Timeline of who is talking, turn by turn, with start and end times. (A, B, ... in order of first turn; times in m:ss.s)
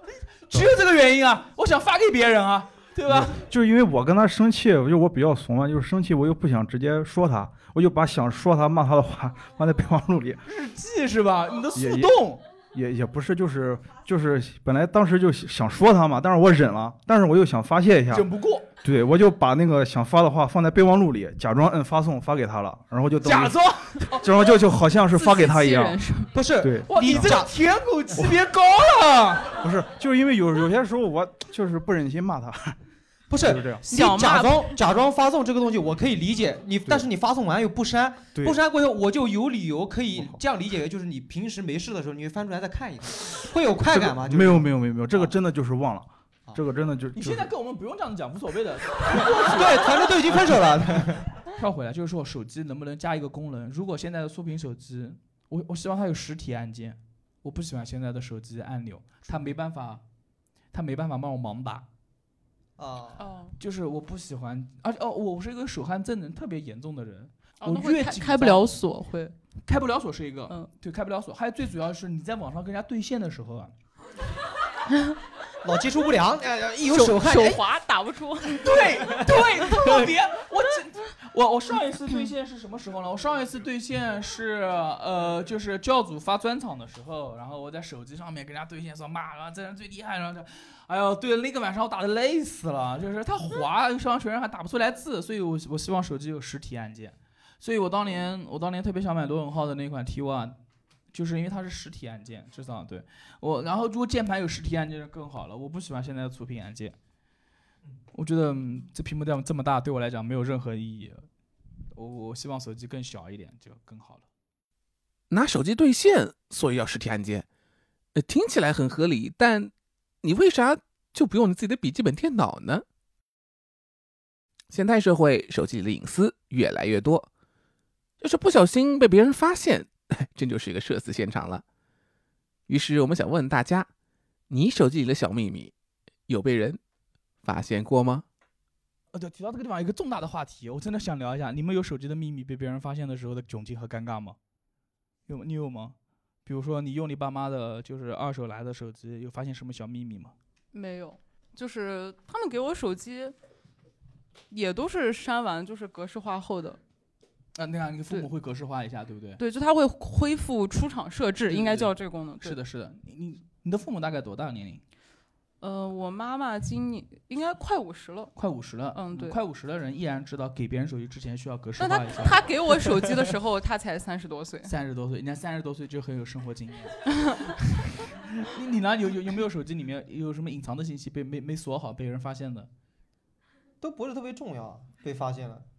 0:00.5-0:03.4 A
0:03.1-0:10.4 B
0:10.4-0:12.4 A
0:11.7-0:18.3 B
0:18.1-0:18.7 A
0:18.8-0:26.0 B
0:23.2-0:24.6 A
0:25.1-0:26.3 C
0:26.3-0:27.5 D
0:26.6-0:27.4 B
0:26.8-0:29.6 A
0:28.1-0:28.4 B
0:29.6-0:32.8 B
0:33.3-0:45.3 D
0:33.4-0:33.8 B
0:33.9-0:34.8 C
0:40.1-0:40.4 B
0:43.9-0:47.5 B
0:47.1-0:50.7 A
0:49.3-0:51.2 D
0:51.4-1:00.0 A
1:00.7-1:01.9 A
1:02.8-1:03.3 D
1:03.2-1:03.5 C
1:03.6-1:08.7 A
1:07.6-1:09.4 C
1:09.7-1:13.7 A
1:15.6-1:17.6 D
1:16.9-1:18.9 C
1:18.5-1:40.6 A
1:41.1-1:47.0 A
1:48.1-1:51.3 A
1:51.9-1:54.3 A
1:55.3-1:57.4 E
1:58.2-1:59.7 E
2:00.2-2:02.8 E
2:04.7-2:07.3 E
2:08.2-2:11.6 E
2:12.7-2:13.9 E
2:14.5-2:15.7 E
2:16.3-2:16.8 E
2:17.4-2:18.2 E
2:19.1-2:24.4 A
2:25.3-2:26.0 A
2:26.4-2:30.3 A
2:30.7-2:33.3 C
2:34.5-2:36.8 C
2:37.6-2:39.4 A
2:39.4-2:42.6 C
2:41.5-2:44.8 A
2:45.6-2:48.3 C
2:48.4-2:52.5 A
2:48.9-2:49.4 C
2:51.8-2:54.7 C
2:54.6-3:02.7 A
3:03.8-3:05.7 D